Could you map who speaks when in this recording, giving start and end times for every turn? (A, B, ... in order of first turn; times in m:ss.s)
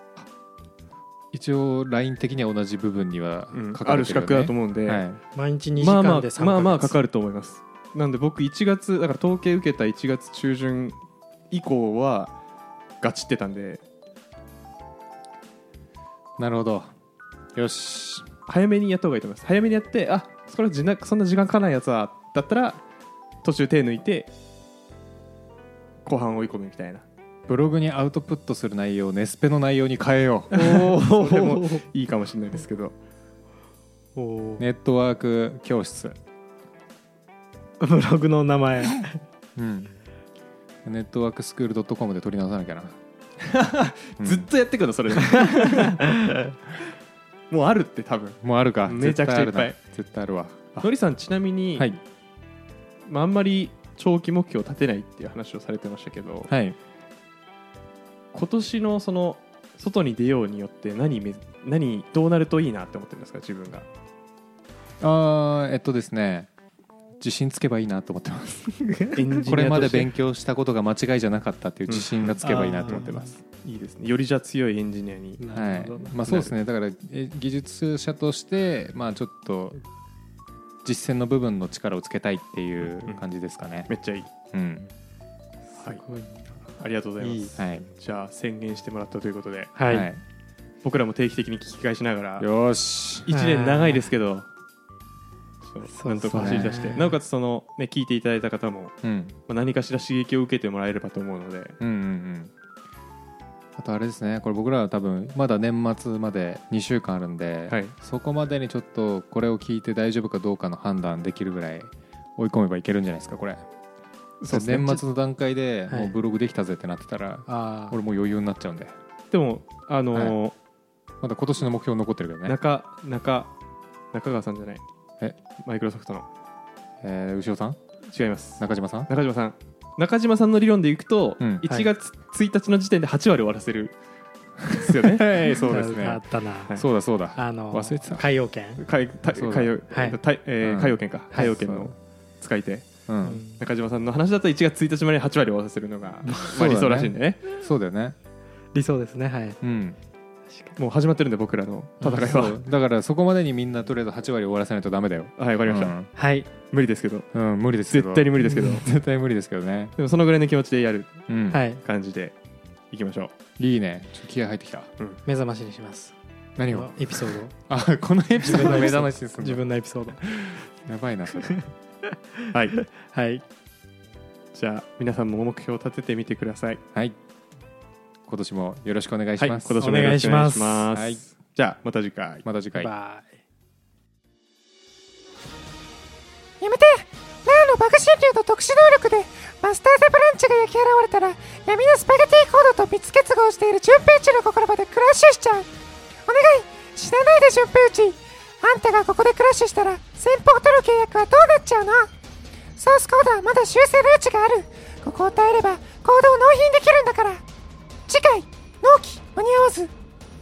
0:01.3-0:05.2 A
0:03.5-0:05.0 B
0:05.3-0:07.0 C
0:05.8-0:11.0 B
0:11.5-0:12.3 B
0:13.0-0:13.8 B
0:16.4-0:16.9 A
0:17.5-0:18.3 A
0:18.5-0:22.8 B
0:23.4-0:24.3 B
0:26.0-0:27.0 B
0:27.5-0:30.5 A
0:30.5-0:32.9 B
0:30.5-0:31.9 C
0:34.2-0:34.6 C
0:34.6-0:36.2 A
0:37.8-0:39.2 C
0:39.6-0:39.9 A
0:40.8-0:43.0 A
0:43.4-0:46.0 B
0:44.2-0:44.5 A
0:45.5-0:46.5 C
0:47.5-0:49.8 B
0:48.4-0:50.9 A
0:50.8-0:52.0 B
0:53.0-0:56.5 B
0:56.5-0:56.8 A
0:58.3-1:03.9 B
1:05.0-1:06.5 A
1:07.2-1:08.8 A
1:08.8-1:09.2 C
1:09.1-1:10.1 B
1:09.4-1:13.4 A
1:11.9-1:13.0 B
1:12.4-1:13.2 C
1:13.5-1:15.4 B
1:15.4-1:16.2 C
1:15.5-1:19.8 A
1:16.2-1:16.5 B
1:20.8-1:23.9 A
1:23.9-1:24.3 B
1:24.5-1:24.9 A
1:25.7-1:27.5 C
1:26.8-1:29.7 B
1:27.6-1:27.9 A
1:29.8-1:30.1 C
1:29.9-1:30.2 A
1:30.8-1:32.5 B
1:32.4-1:33.3 A
1:33.2-1:34.5 B
1:33.3-1:34.1 C
1:35.6-1:38.9 B
1:35.9-1:37.2 C
1:36.3-1:36.8 A
1:39.0-1:39.4 A
1:39.5-1:41.8 B
1:41.8-1:42.5 A
1:43.8-1:53.6 A
1:47.7-1:47.9 B
1:54.4-1:55.0 B
1:54.5-1:58.9 A
1:55.9-1:56.1 C
1:57.5-1:58.0 C
1:59.3-2:00.5 B
2:01.2-2:02.6 A
2:02.4-2:03.5 B
2:04.1-2:04.8 B
2:05.6-2:06.3 B
2:07.0-2:07.8 A
2:08.1-2:14.0 B
2:08.6-2:09.1 A
2:14.6-2:16.2 A
2:14.7-2:15.4 B
2:15.4-2:16.8 C
2:16.7-2:18.2 A
2:17.4-2:18.8 C
2:18.8-2:22.9 B
2:19.3-2:19.7 A
2:19.9-2:20.2 C
2:20.6-2:21.0 A
2:21.3-2:21.9 C
2:23.1-2:23.4 A
2:23.2-2:23.6 C
2:23.5-2:27.4 B
2:26.4-2:28.2 A
2:28.7-2:29.6 C
2:29.6-2:30.0 A
2:30.8-2:32.6 B
2:32.0-2:36.1 A
2:35.4-2:36.0 B
2:36.1-2:36.5 C
2:36.7-2:37.3 B
2:37.3-2:39.9 A
2:37.9-2:38.8 B
2:38.5-2:38.8 C
2:40.0-2:41.1 B
2:41.3-2:41.6 A
2:41.5-2:41.8 C
2:41.8-2:42.4 B
2:42.9-2:43.3 B
2:43.6-2:44.9 A
2:45.2-2:46.1 C
2:46.6-2:49.6 A
2:46.7-2:47.5 C
2:48.4-2:50.5 C
2:50.2-2:51.6 A
2:51.4-2:51.6 C
2:52.5-2:52.8 B
2:52.8-2:53.4 C
2:54.5-2:56.8 B
2:58.2-3:00.3 A
2:59.4-3:02.4 B
2:59.8-3:00.9 C
3:00.9-3:01.2 A
3:02.4-3:02.9 A
3:02.7-3:03.3 C
3:06.6-3:15.7 D
3:16.3-3:22.1 D
3:22.8-3:27.4 D
3:28.1-3:29.9 D